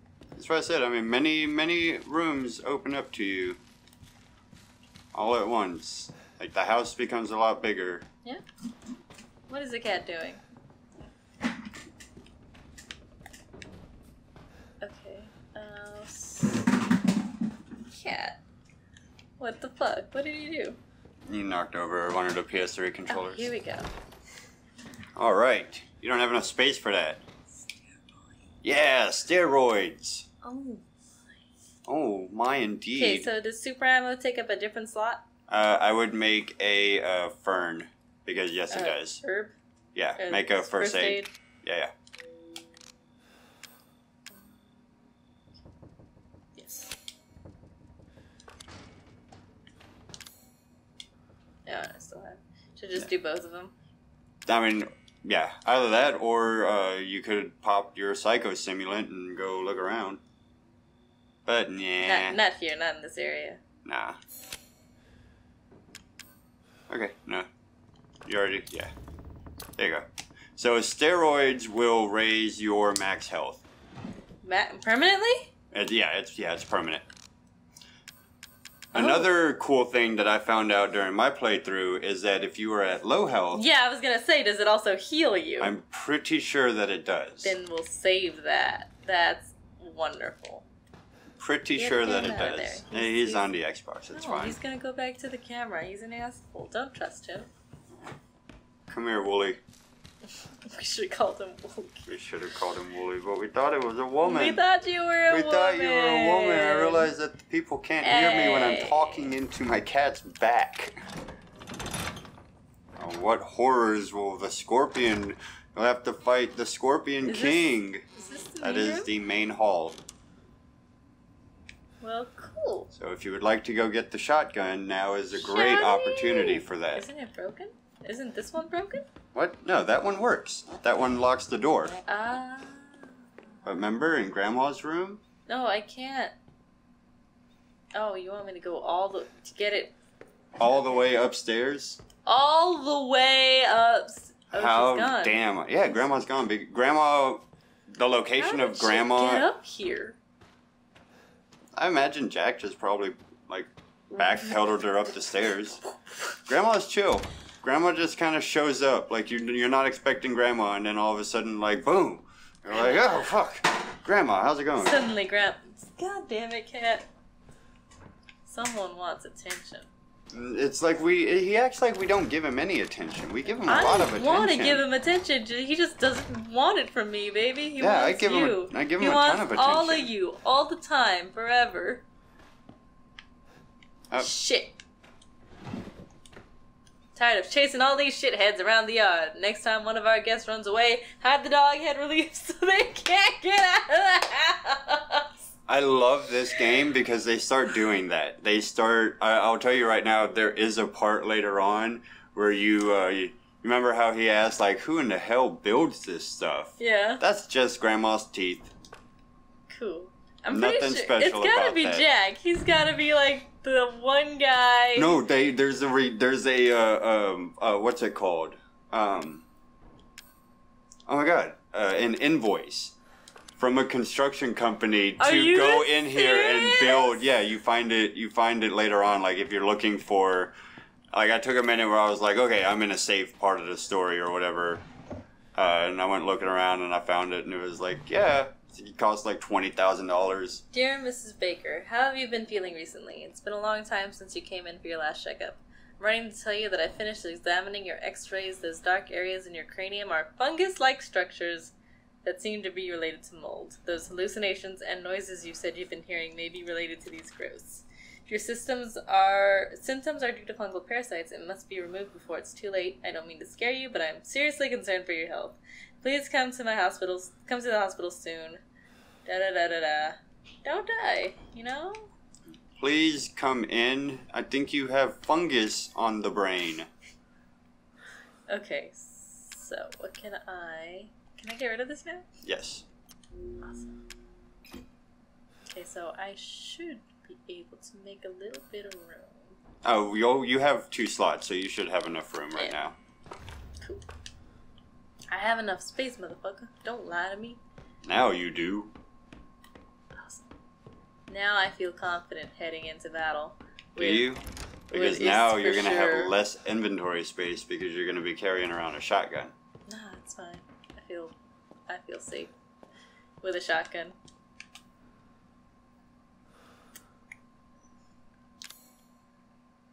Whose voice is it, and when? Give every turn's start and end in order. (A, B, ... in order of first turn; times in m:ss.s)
0:00.3-0:03.6 A
0:05.1-0:08.0 A
0:09.5-0:10.4 B
0:14.8-0:16.6 B
0:17.9-0:18.4 B
0:19.4-0:20.8 B
0:21.3-0:23.5 A
0:23.1-0:23.9 B
0:25.2-0:27.2 A
0:28.6-0:30.2 A
0:30.4-0:30.8 B
0:31.9-0:33.3 A
0:32.9-0:35.2 B
0:35.5-0:39.2 A
0:38.7-0:39.5 B
0:39.9-0:41.9 A
0:40.2-0:41.3 B
0:46.6-0:46.9 B
0:51.6-0:53.7 B
0:54.4-1:00.2 A
1:01.4-1:02.4 A
1:02.0-1:03.6 B
1:03.8-1:04.2 A
1:06.9-1:07.5 A
1:08.2-1:08.9 A
1:09.8-1:13.6 A
1:14.4-1:15.5 B
1:15.7-1:17.0 A
1:18.9-1:23.6 A
1:18.9-1:19.3 B
1:23.5-1:25.7 B
1:25.6-1:27.5 A
1:27.4-1:30.6 B
1:31.4-1:34.6 A
1:31.8-1:33.5 B
1:34.1-1:37.5 B
1:38.9-1:39.6 A
1:40.6-1:42.1 B
1:42.1-1:44.6 A
1:44.2-1:47.1 B
1:45.3-1:51.0 A
1:48.0-1:49.3 B
1:53.0-1:58.0 A
1:57.2-1:59.1 B
1:58.6-2:00.0 A
2:02.0-2:02.9 B
2:02.9-2:07.0 A
2:05.3-2:09.0 B
2:09.3-2:12.0 A
2:12.1-2:13.1 B
2:13.6-2:15.2 A
2:15.5-2:16.3 B
2:17.9-2:19.9 B
2:20.6-2:22.0 A
2:20.6-2:21.0 B
2:22.2-2:25.4 B
2:24.5-2:29.4 A
2:28.4-2:30.2 B
2:31.8-2:35.8 A
2:34.2-2:34.6 B
2:36.4-2:45.0 A
2:42.7-2:43.3 B
2:44.8-2:47.1 B
2:48.4-2:49.9 B
2:50.3-2:54.8 A
2:53.6-3:02.0 B
2:57.8-3:00.1 A
3:04.1-3:04.8 B
3:07.1-3:15.3 B
3:15.7-3:28.7 A
3:26.8-3:27.2 B
3:29.7-3:35.2 B
3:30.5-3:32.1 A
3:35.0-3:39.4 A
3:41.1-3:42.9 A
3:43.6-3:50.5 A
3:45.2-3:47.2 B
3:51.1-3:54.8 A
3:55.6-4:00.6 A
4:00.7-4:28.6 B
4:29.2-4:32.1 B
4:32.8-4:36.9 A
4:38.5-4:42.2 B
4:42.4-4:42.8 A
4:43.6-4:44.0 B
4:45.7-4:49.6 B
4:49.8-4:53.0 A
4:55.3-4:57.6 B
4:58.0-4:58.9 A
5:00.1-5:00.5 B
5:01.3-5:04.3 B
5:04.0-5:09.5 A
5:04.9-5:06.4 B
5:09.9-5:11.3 B
5:11.9-5:12.5 B
5:13.4-5:14.2 B